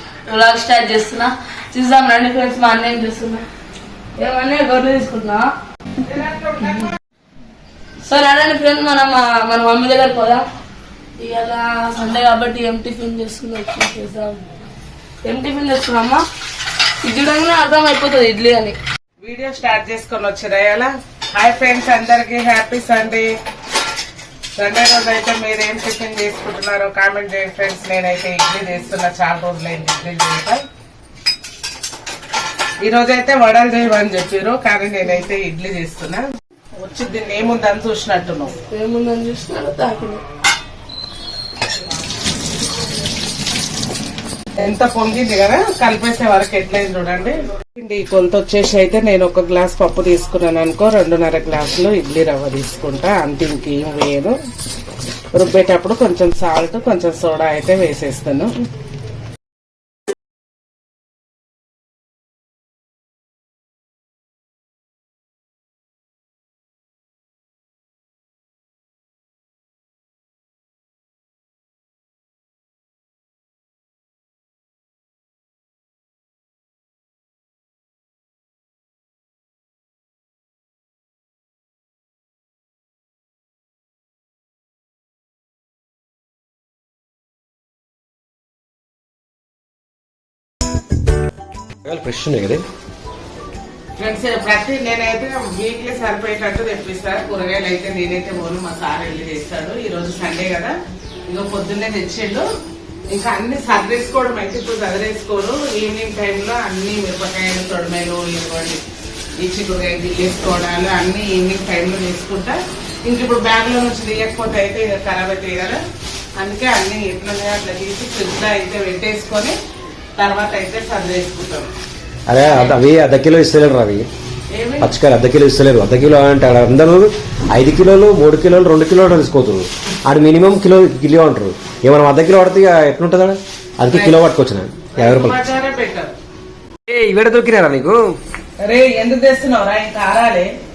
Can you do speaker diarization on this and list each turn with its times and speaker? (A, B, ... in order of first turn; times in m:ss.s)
0:00.3-0:03.4 A
0:04.2-0:05.5 A
0:06.1-0:06.5 B
0:06.5-0:06.9 A
0:08.1-0:10.4 A
0:11.2-0:14.5 A
0:15.2-0:16.2 A
0:17.0-0:18.8 A
0:19.2-0:23.3 B
0:24.6-0:30.6 B
0:32.8-0:36.2 B
0:36.8-0:38.6 B
0:38.6-0:40.2 A
0:44.6-0:54.3 B
0:55.3-0:58.5 B
1:31.8-1:32.6 C
1:34.0-1:40.7 B
1:41.3-1:42.5 B
1:43.1-1:48.8 B
1:49.4-1:55.8 B
1:56.4-1:59.6 B
2:00.2-2:01.7 B
2:02.3-2:04.1 C
2:02.5-2:02.8 B
2:04.5-2:05.0 B
2:04.8-2:15.4 C
2:13.9-2:14.3 B
2:14.8-2:16.1 B
2:16.9-2:18.2 C
2:18.6-2:20.5 B